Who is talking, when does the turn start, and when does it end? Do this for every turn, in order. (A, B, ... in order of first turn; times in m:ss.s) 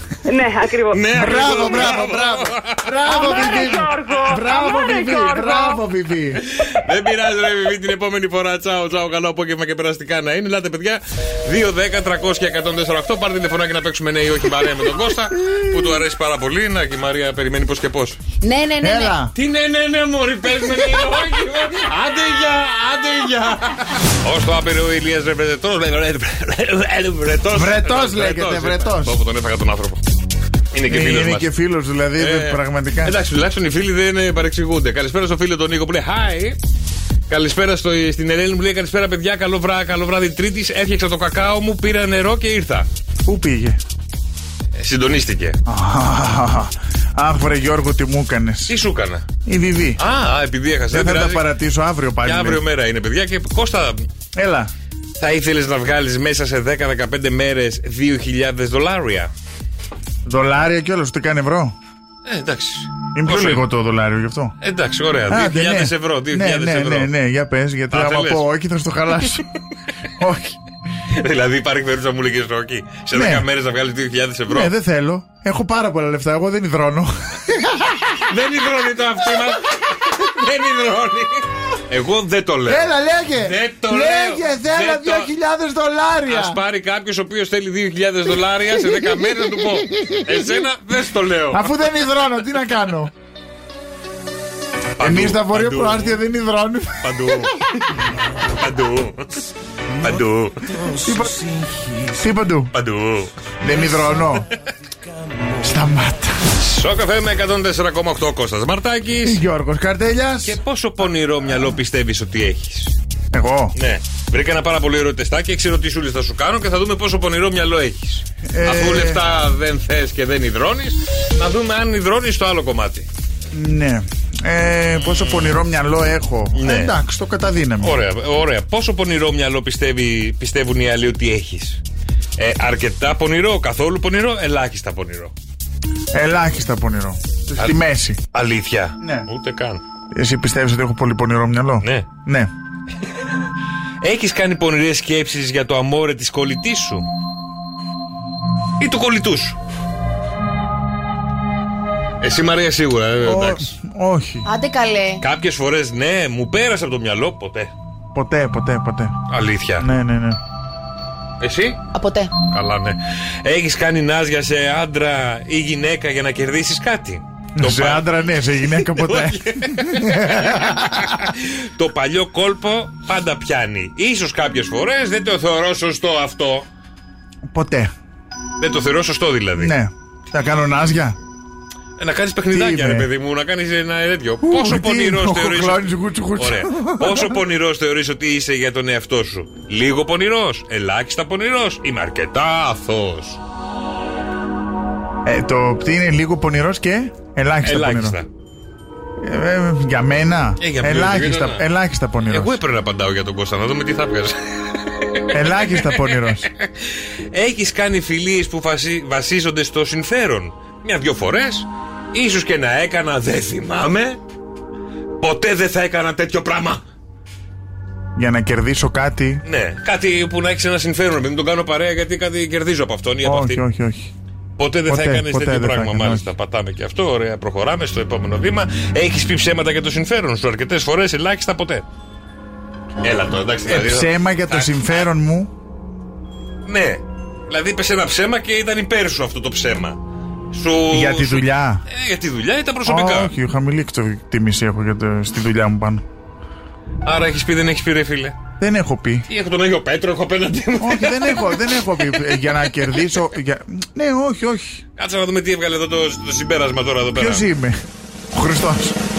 0:00.3-0:01.7 A
0:00.9-0:03.0 B
0:01.1-0:06.4 C
0:03.0-0:05.8 A
0:06.5-0:18.2 B
0:15.5-0:16.0 C
0:18.4-0:19.2 D
0:18.8-0:19.4 C
0:19.4-0:30.0 B
0:27.5-0:29.2 C
0:30.7-0:31.5 B
0:30.9-0:33.2 C
0:32.2-0:36.6 B
0:37.3-0:42.9 B
0:43.3-0:43.8 C
0:44.8-0:45.6 B
0:45.7-0:48.8 C
0:48.7-0:49.2 B
0:49.5-0:50.0 C
0:50.0-0:51.5 B
0:50.9-0:52.6 C
0:52.2-0:54.1 B
0:54.4-0:54.7 C
0:55.2-0:59.3 B
1:00.2-1:01.8 C
1:02.3-1:03.6 B
1:03.2-1:04.6 C
1:04.6-1:07.1 B
1:05.3-1:09.5 C
1:07.9-1:08.5 B
1:10.2-1:10.6 C
1:11.2-1:14.7 B
1:13.1-1:13.5 C
1:14.5-1:18.0 C
1:18.2-1:25.3 B
1:22.7-1:26.6 C
1:26.3-1:31.7 B
1:29.8-1:30.3 C
1:31.5-1:33.1 C
1:35.0-1:36.2 B
1:35.0-1:37.3 C
1:37.0-1:39.4 B
1:40.0-1:41.0 B
1:41.0-1:41.5 C
1:42.1-1:42.7 C
1:42.7-1:43.3 B
1:43.6-1:44.5 C
1:45.6-1:46.4 C
1:46.6-1:49.4 B
1:49.2-1:50.6 C
1:50.4-1:53.0 B
1:53.3-1:53.8 C
1:53.8-2:03.1 B
1:58.5-1:59.2 C
2:03.5-2:08.0 C
2:05.0-2:05.6 B
2:06.6-2:07.0 B
2:07.8-2:11.8 B
2:12.4-2:15.3 B
2:16.1-2:18.2 C
2:18.3-2:19.8 B
2:19.0-2:19.3 C
2:20.1-2:22.5 C
2:24.0-2:27.1 B
2:28.8-2:29.6 B
2:32.2-2:33.7 B
2:33.2-2:34.5 C
2:34.4-2:35.2 D
2:35.2-2:37.7 B
2:38.1-2:39.2 C
2:39.3-2:39.9 B
2:39.8-2:40.4 C
2:41.4-2:41.8 B
2:41.9-2:42.3 D
2:42.5-2:56.7 B
2:47.6-2:51.2 C
2:57.5-2:57.9 C
2:58.6-2:59.7 B
2:59.6-3:01.2 C
3:02.0-3:13.4 B
3:02.5-3:03.1 C
3:04.4-3:07.4 C
3:15.2-3:18.2 C
3:17.6-3:18.3 B
3:19.2-3:22.6 C
3:20.6-3:21.6 B
3:22.3-3:26.7 B
3:25.3-3:26.5 C
3:27.3-3:34.2 B
3:35.2-3:36.8 B
3:38.2-3:39.4 C
3:39.4-3:43.6 B
3:43.2-3:44.1 C
3:44.6-3:51.9 B
3:44.9-3:46.3 C
3:53.0-3:54.9 B
3:53.7-3:55.5 C
3:56.7-4:00.0 B
4:00.5-4:03.3 B
4:00.9-4:01.8 C
4:02.8-4:06.0 C
4:07.0-4:08.4 B
4:08.6-4:09.3 C
4:09.3-4:12.4 B
4:10.8-4:14.8 C
4:15.0-4:17.4 B
4:17.2-4:17.8 C
4:18.3-4:19.0 C